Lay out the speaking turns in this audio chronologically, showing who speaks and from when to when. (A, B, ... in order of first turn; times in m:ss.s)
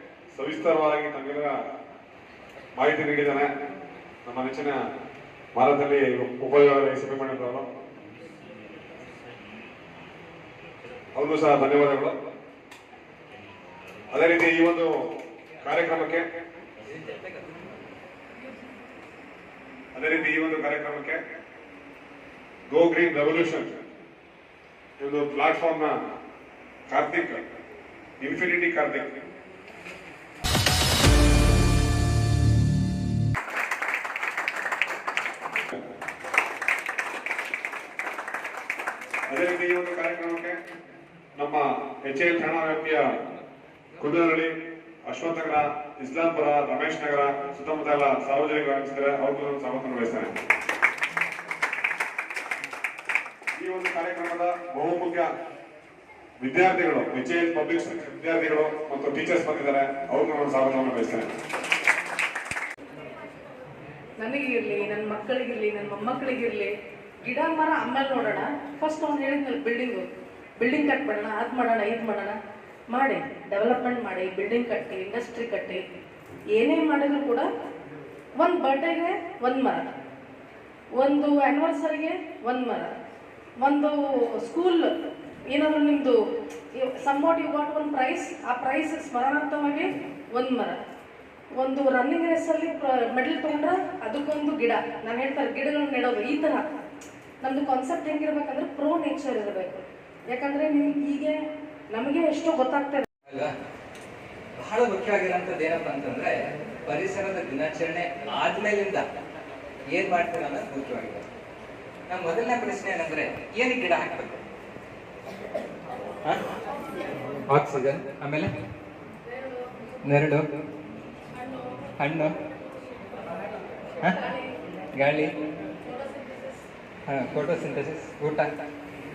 0:00.3-0:01.6 A
0:02.8-0:03.5 A
0:04.3-0:04.8 A
0:05.6-0:07.7 A
0:11.2-0:12.2 A
0:14.1-0:15.0 A
0:15.6-0:16.3 A
0:16.9-0:17.4 B
0:20.0-0:21.2 A
0:22.7-0:23.8 A
0:25.0-0:26.0 A
0:26.9-0:27.4 A
0:28.2-0:29.1 A
0:39.3-0:40.6 A
0:41.4-0:43.1 A
0:44.0-0:44.5 A
0:45.1-0:50.3 A
0:53.6-0:55.3 A
0:56.4-1:01.4 A
1:04.2-1:06.7 C
1:07.2-1:10.1 C
1:10.6-1:12.4 C
1:12.9-1:15.8 C
1:16.6-1:17.5 C
1:18.4-1:19.8 C
1:21.0-1:22.9 C
1:23.6-1:24.9 C
1:25.5-1:26.2 C
1:26.8-1:30.8 C
1:31.6-1:36.6 C
1:37.4-1:41.4 C
1:41.9-1:43.1 C
1:43.3-1:43.5 B
1:44.6-1:49.0 B
1:49.9-1:51.3 B
1:52.1-1:54.4 B
1:57.5-1:58.5 B
2:00.0-2:00.5 B
2:02.0-2:02.4 B
2:04.2-2:04.6 C
2:04.9-2:05.3 B
2:05.8-2:06.6 C
2:07.1-2:08.5 B